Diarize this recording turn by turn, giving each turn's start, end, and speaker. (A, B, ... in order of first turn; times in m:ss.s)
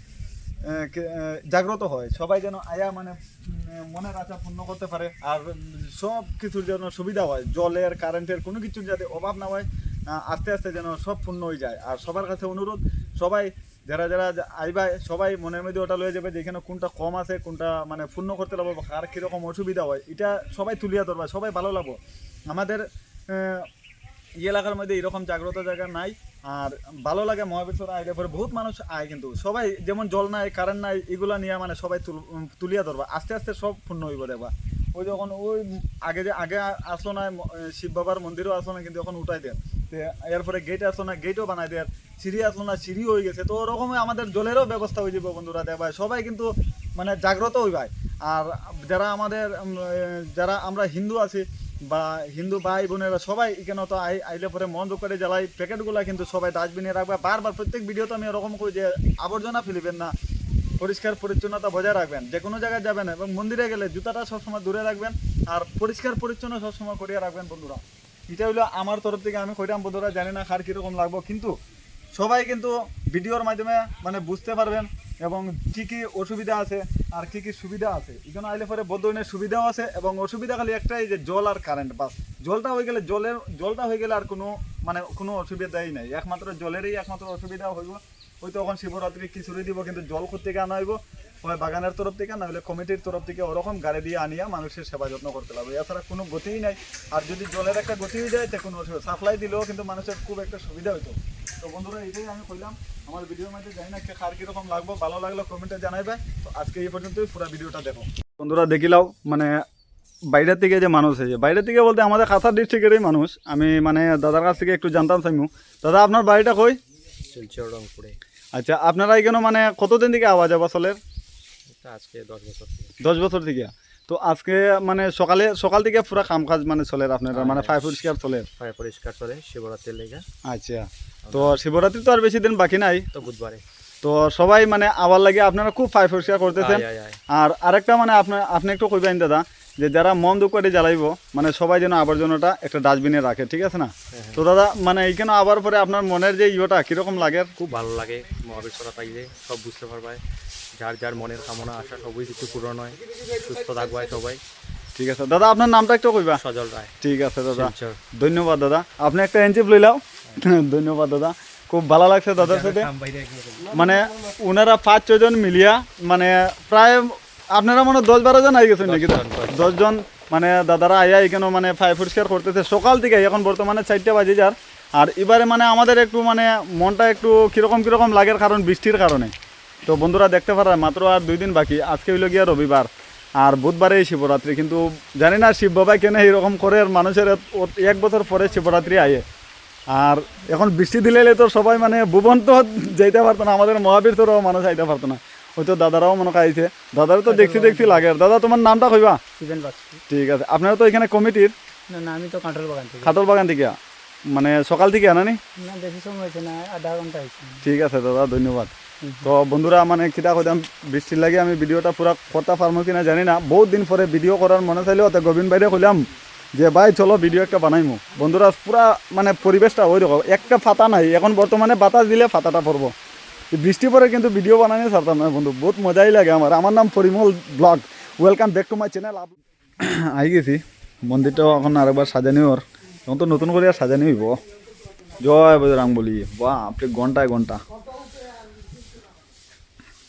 0:00.6-0:22.0 A
0:22.5-0:23.7 A
0:24.4-1:00.1 A
1:00.8-1:11.5 A
1:12.1-1:49.5 A
1:50.3-1:56.8 A
1:57.3-1:58.2 B
1:58.6-2:01.0 A
2:01.7-2:02.9 B
2:03.0-2:08.5 A
2:07.3-2:08.0 B
2:08.6-2:10.2 B
2:10.5-2:13.1 A
2:11.2-2:11.6 B
2:13.1-2:13.6 B
2:14.0-2:16.8 A
2:16.6-2:17.2 B
2:17.4-2:27.5 A
2:24.1-2:24.4 B
2:27.6-2:30.2 B
2:30.7-2:34.4 B
2:34.9-2:36.4 A
2:36.4-2:36.9 B
2:37.0-2:42.9 A
2:37.5-2:38.0 B
2:42.5-2:43.4 B
2:43.7-2:59.3 A
2:48.8-2:49.8 B
2:59.8-3:02.9 A
3:03.4-3:09.2 A
3:09.9-3:19.2 A
3:17.2-3:18.0 C
3:19.4-3:20.0 C
3:20.1-3:21.5 A
3:21.9-3:23.1 C
3:23.0-3:23.8 A
3:24.3-3:25.4 A
3:25.6-3:27.6 C
3:27.6-3:28.7 A
3:29.0-3:29.3 C
3:29.2-3:36.0 A
3:36.6-3:42.9 A
3:43.5-3:54.4 A
3:55.2-3:57.6 A